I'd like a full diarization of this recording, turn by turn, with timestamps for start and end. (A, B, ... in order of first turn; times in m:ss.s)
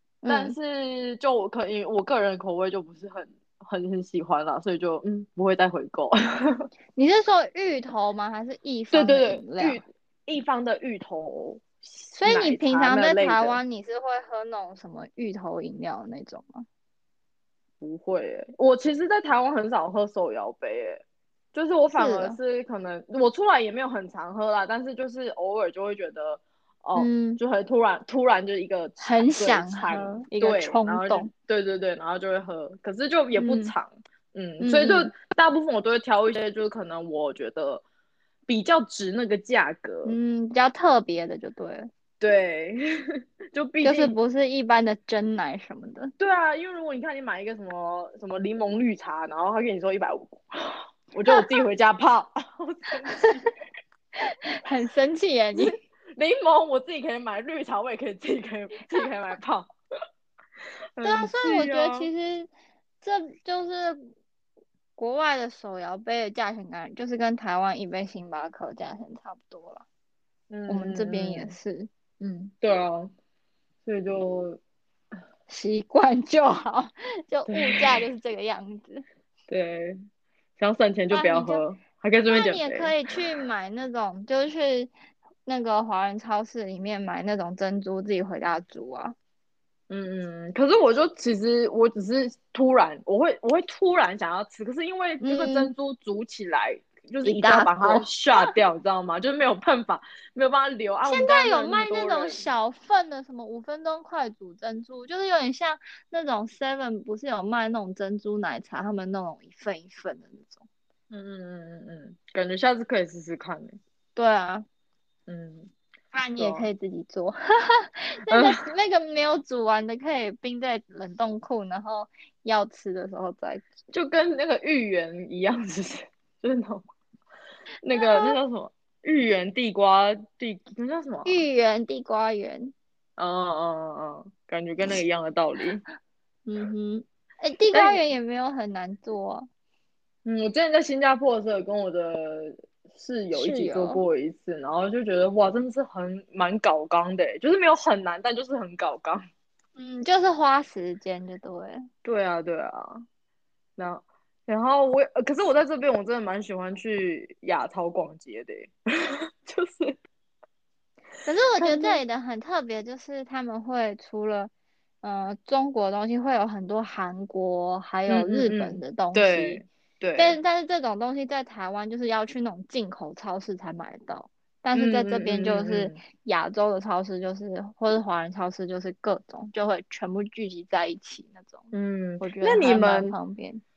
0:00.2-0:00.6 A
0:00.3-0:06.6 B
0:07.0-0:09.8 A
0:08.9-0:13.6 B
0:12.2-0:16.6 A
0:17.8-0:37.8 B
0:21.9-0:22.4 A
0:27.0-0:27.4 A
0:29.0-0:31.3 A
0:33.3-0:33.7 A
0:34.6-0:35.1 A
0:38.5-0:40.2 B
0:40.0-0:41.9 A
0:42.2-0:42.8 B
0:43.5-0:44.2 B
0:43.8-0:46.1 A
0:46.2-0:53.5 B
0:54.2-0:55.8 A
0:55.6-0:59.7 B
1:01.0-1:02.1 B
1:01.0-1:02.5 A
1:03.0-1:04.1 A
1:05.0-1:09.8 A
1:10.5-1:11.6 B
1:10.7-1:12.5 A
1:12.6-1:13.1 B
1:13.8-1:14.6 B
1:15.5-1:19.0 A
1:17.5-1:17.9 B
1:19.5-1:20.0 B
1:20.6-1:22.9 B
1:21.1-1:21.6 A
1:22.3-1:24.9 A
1:25.4-1:29.1 A
1:29.9-1:42.4 B
1:35.2-1:35.7 A
1:37.2-1:38.5 A
1:41.0-1:50.6 A
1:51.1-1:53.8 B
1:54.1-1:54.6 A
1:55.3-1:55.7 B
1:56.1-2:03.6 A
1:56.4-1:56.7 B
1:58.3-1:58.6 B
2:03.9-2:06.8 B
2:07.8-2:11.4 B
2:07.9-2:08.4 A
2:11.2-2:12.7 A
2:13.2-2:15.8 B
2:16.4-2:19.5 A
2:17.7-2:18.0 B
2:20.2-2:29.2 B
2:23.3-2:24.0 A
2:29.8-2:31.8 A
2:32.0-2:33.0 B
2:33.8-2:40.0 B
2:41.2-2:44.5 A
2:41.6-2:42.0 B
2:45.0-2:49.6 A
2:48.1-2:50.4 B
2:50.2-3:03.6 A
2:54.7-2:56.0 B
3:01.7-3:03.1 B